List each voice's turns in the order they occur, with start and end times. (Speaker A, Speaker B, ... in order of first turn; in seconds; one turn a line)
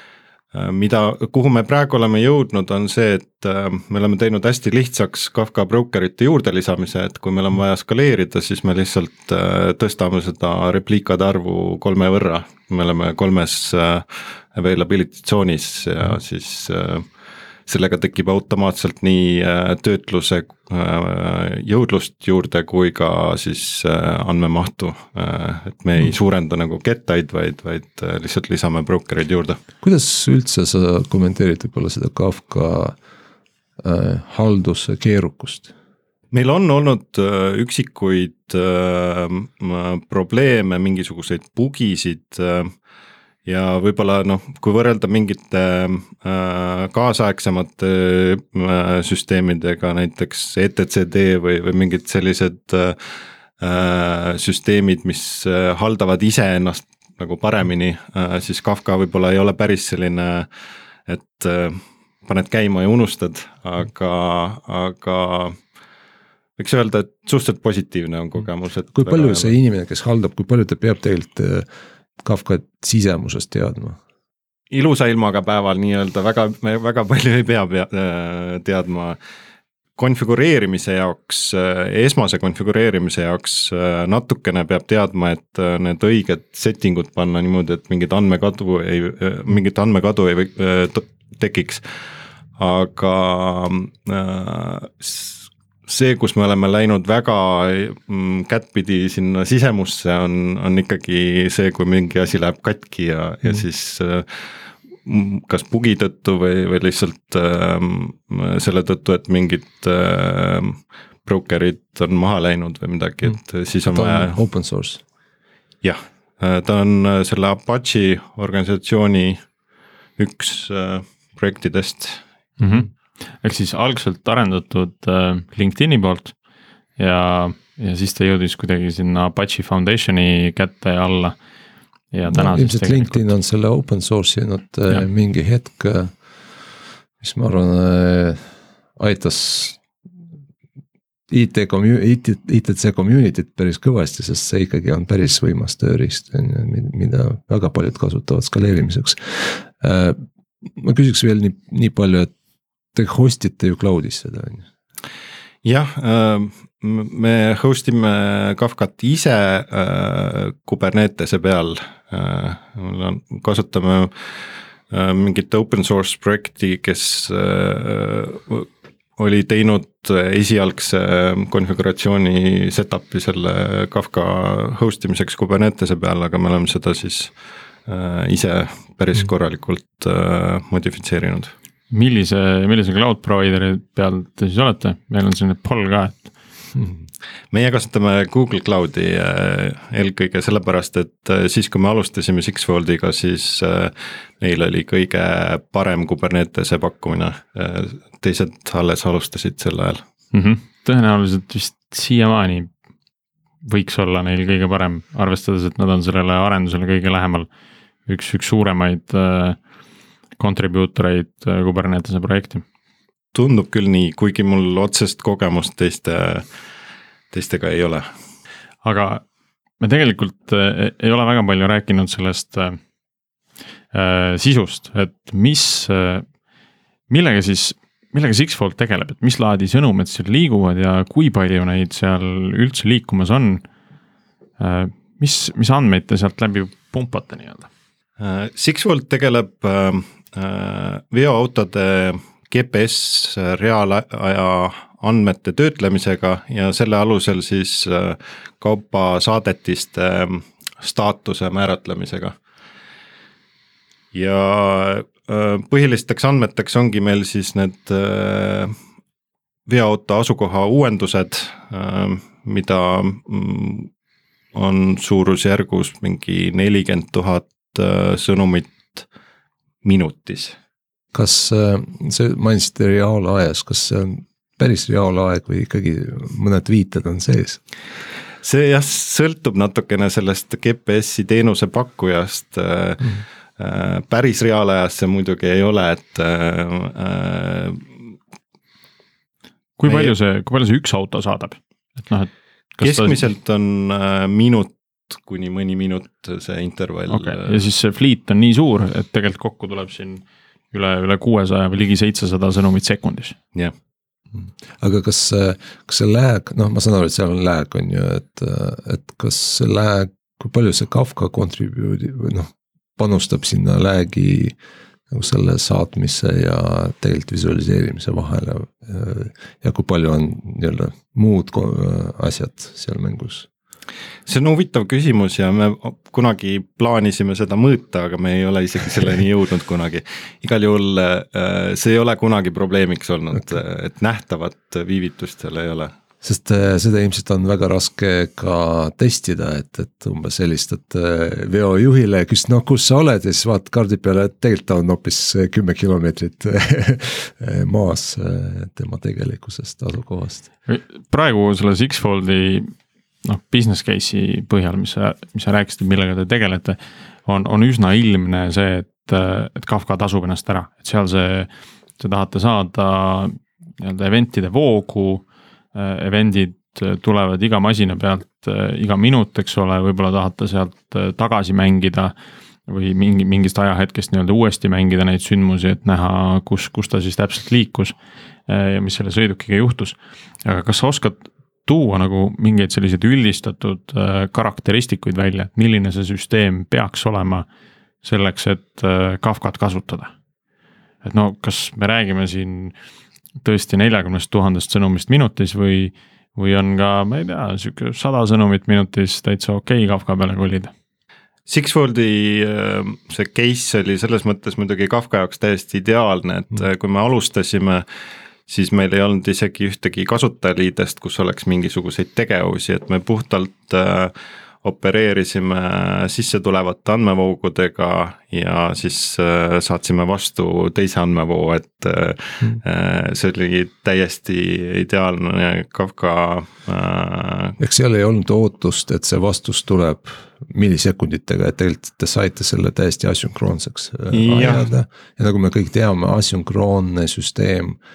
Speaker A: 0.5-17.1
Speaker A: 17.7-29.6
Speaker B: 29.8-33.0
Speaker B: 33.8-35.7
Speaker A: 36.3-42.7
Speaker A: 43.4-60.5
Speaker A: 61.1-65.6
Speaker A: 66.6-69.5
Speaker B: 68.9-71.7
Speaker B: 72.2-74.0
Speaker A: 74.7-79.2
Speaker A: 80.0-91.8
Speaker A: 92.6-104.5
Speaker A: 105.0-114.3
Speaker B: 113.8-115.0
Speaker A: 115.8-119.4
Speaker A: 120.2-122.2
Speaker C: 122.6-122.9
Speaker C: 123.4-126.3
Speaker C: 127.0-131.3
Speaker C: 132.1-133.3
Speaker B: 132.3-136.1
Speaker B: 137.2-138.4
Speaker B: 139.0-139.8
Speaker B: 141.3-150.2
Speaker B: 150.8-152.3
Speaker B: 152.9-154.6
Speaker A: 155.6-164.1
Speaker A: 164.9-177.3
Speaker A: 177.8-181.5
Speaker C: 181.9-186.3
Speaker A: 187.5-200.0
Speaker C: 200.3-202.7
Speaker C: 203.6-207.5
Speaker C: 208.1-209.6
Speaker C: 210.4-212.6
Speaker A: 213.3-216.4
Speaker A: 217.3-218.1
Speaker C: 218.8-219.2
Speaker C: 219.8-222.8
Speaker C: 223.9-226.2
Speaker C: 227.1-233.6
Speaker C: 234.6-237.7
Speaker A: 238.2-252.3
Speaker A: 254.1-258.7
Speaker A: 259.7-263.9
Speaker A: 264.5-269.1
Speaker A: 269.8-270.6
Speaker B: 271.1-277.6
Speaker A: 278.4-287.9
Speaker C: 289.8-293.3
Speaker A: 289.9-290.1
Speaker A: 292.8-297.6
Speaker C: 297.1-303.4
Speaker B: 304.3-314.5
Speaker B: 315.1-323.5
Speaker A: 324.2-335.9
Speaker B: 336.2-350.4
Speaker C: 350.7-372.1
Speaker C: 372.7-377.9
Speaker C: 378.5-387.5
Speaker C: 388.0-390.1
Speaker C: 391.0-392.7
Speaker C: 393.4-400.7
Speaker A: 401.5-407.8
Speaker A: 408.5-427.6
Speaker B: 427.6-437.8
Speaker A: 434.1-434.7